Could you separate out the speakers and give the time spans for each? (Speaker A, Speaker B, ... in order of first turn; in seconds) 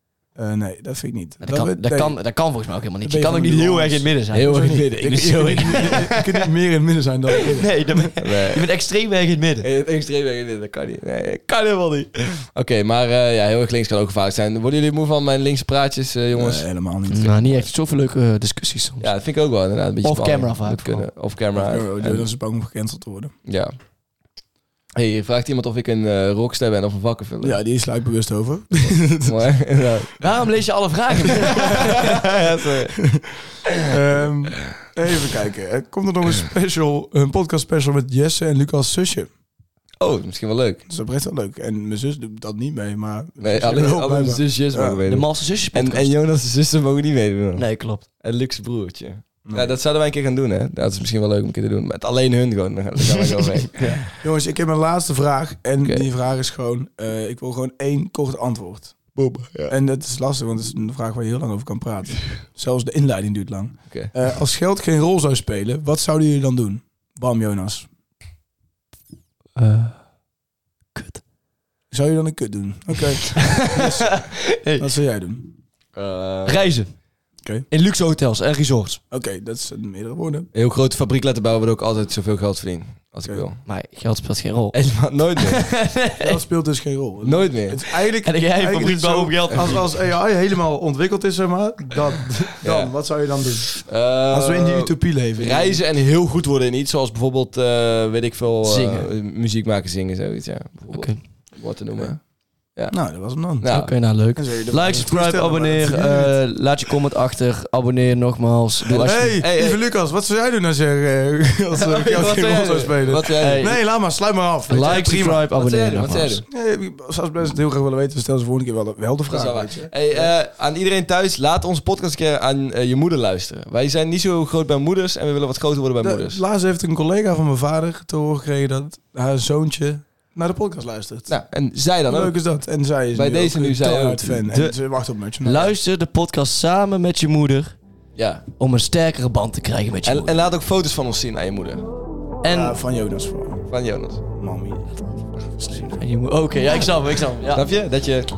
Speaker A: 0.3-2.2, 3.0-8.1, 16.3-17.4, 21.5-23.3, 27.4-29.6, 33.8-39.3, 40.9-45.0, 49.4-49.8, 54.2-59.1, 59.7-67.9, 71.9-75.5, 79.1-80.5, 86.2-95.8, 102.9-106.4, 109.0-115.5, 116.5-120.3, 126.0-131.3, 132.0-135.7, 142.5-143.7, 144.3-144.9
Speaker B: 1.4-6.2, 7.6-9.7, 17.1-19.1, 20.0-21.1, 30.2-32.1, 45.1-46.1, 47.6-48.0, 53.8-54.0, 69.5-70.0, 70.9-71.2, 73.6-74.9, 76.5-76.9, 77.7-79.0, 83.7-84.8, 85.4-86.4, 88.2-89.9, 98.6-99.1, 100.9-101.2, 103.7-109.4, 113.3-113.8, 114.7-116.4, 135.4-137.8, 138.6-140.4, 142.4-142.8, 145.6-147.7
Speaker C: 4.3-6.0, 8.2-8.7, 9.6-17.6, 19.0-22.3, 23.4-23.7, 24.9-27.6, 29.0-30.2, 32.2-33.1, 40.0-40.8, 43.4-54.1, 59.1-59.7, 63.9-64.2, 75.9-76.7, 80.5-83.6, 84.7-85.7, 87.2-87.9, 89.5-89.8, 92.6-92.9, 93.8-102.2, 102.7-103.9, 108.9-109.8, 111.7-113.7, 115.5-116.4, 119.3-126.4, 131.3-132.4, 133.1-134.4, 138.2-138.4, 140.0-141.8, 143.7-144.2, 147.5-148.3